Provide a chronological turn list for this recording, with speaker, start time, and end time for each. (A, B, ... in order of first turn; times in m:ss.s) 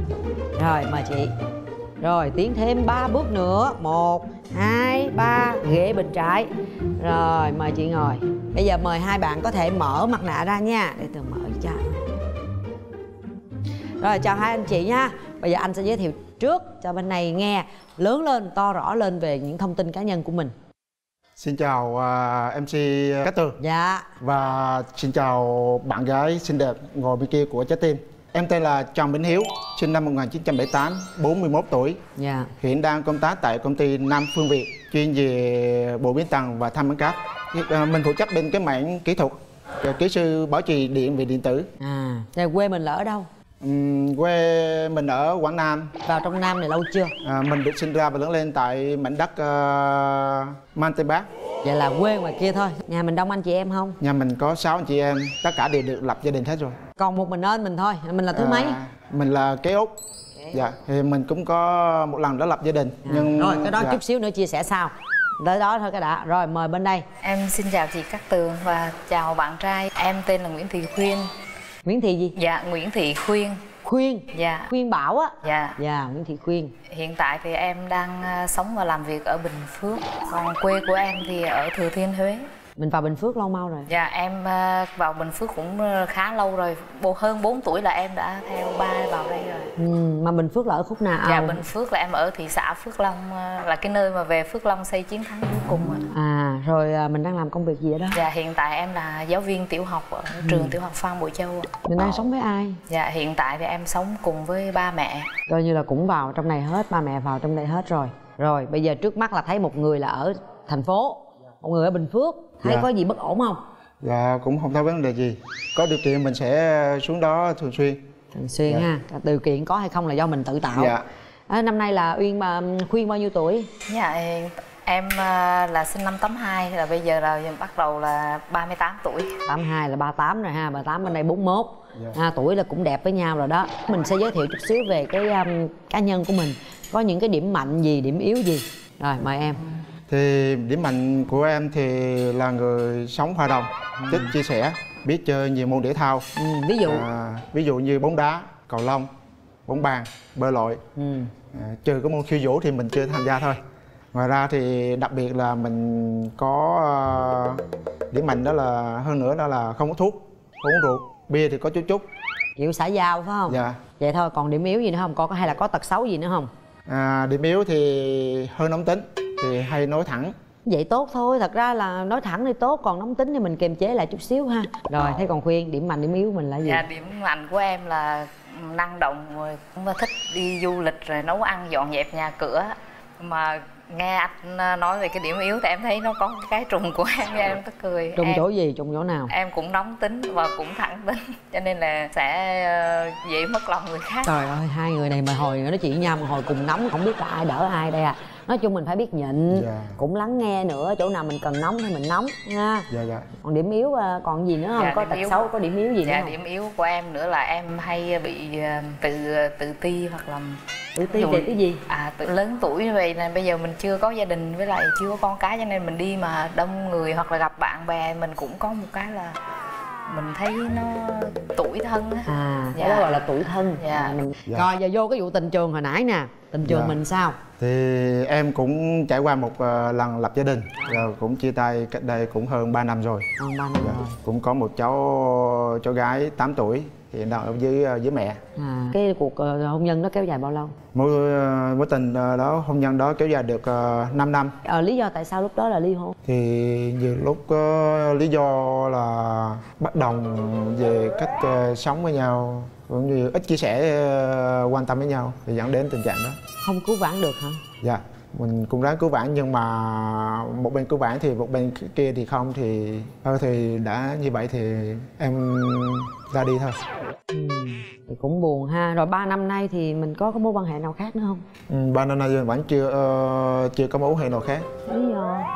0:00.6-0:01.3 A
0:02.0-0:11.9 A
0:14.0-0:20.5 A
0:21.4-0:23.6 B
0:23.6-0:24.1 A
0:24.2-0:32.0 B
0:32.2-0:32.5 A
0:32.6-0:41.7 B
0:41.8-0:43.3 A
0:43.6-0:45.9 B
0:46.0-0:47.1 A
0:47.2-0:51.3 B
0:51.6-0:54.0 A
0:54.0-0:56.8 B
0:57.0-0:58.8 A
0:58.3-0:59.9 B
1:00.5-1:04.0 B
1:03.0-1:07.0 A
1:07.2-1:11.3 C
1:11.8-1:12.4 A
1:12.4-1:13.6 C
1:13.8-1:16.7 A
1:14.3-1:14.7 C
1:15.4-1:15.8 C
1:16.9-1:22.5 C
1:22.8-1:23.9 A
1:23.9-1:29.7 C
1:29.8-1:31.6 A
1:31.2-1:36.0 C
1:36.1-1:38.2 A
1:38.1-1:41.7 C
1:40.4-1:40.8 A
1:41.9-1:42.8 A
1:42.9-1:45.3 C
1:45.5-1:53.6 A
1:52.6-1:52.9 B
1:54.0-1:58.0 B
1:58.3-2:00.9 A
2:00.7-2:01.0 B
2:01.5-2:03.7 A
2:03.9-2:09.3 C
2:09.5-2:19.6 A
2:20.1-2:26.3 B
2:24.0-2:24.4 A
2:26.4-2:27.0 A
2:26.8-2:29.1 B
2:29.7-2:30.8 B
2:31.0-2:31.3 A
2:31.5-2:33.6 B
2:34.1-2:37.6 B
2:38.1-2:42.1 B
2:42.6-2:46.5 A
2:43.5-2:43.8 B
2:46.9-2:50.3 B
2:50.7-2:56.8 A
2:56.6-3:08.4 C
3:08.2-3:09.3 A
3:09.3-3:14.3 C
3:14.2-3:22.9 A
3:19.5-3:20.0 B
3:22.9-3:23.3 B
3:23.4-3:26.4 A
3:24.8-3:25.5 C
3:26.0-3:39.4 C
3:31.0-3:31.8 A
3:40.1-3:43.2 C
3:42.3-3:47.4 A
3:43.8-3:44.2 C
3:46.6-3:47.0 B
3:47.6-3:58.4 B
3:53.4-3:54.1 A
3:58.6-4:00.7 A
4:00.9-4:04.6 B
4:04.7-4:06.2 A
4:06.2-4:16.4 B
4:16.6-4:17.6 A
4:17.8-4:26.8 B
4:27.3-4:31.4 A
4:31.7-4:34.7 B
4:34.9-4:35.5 A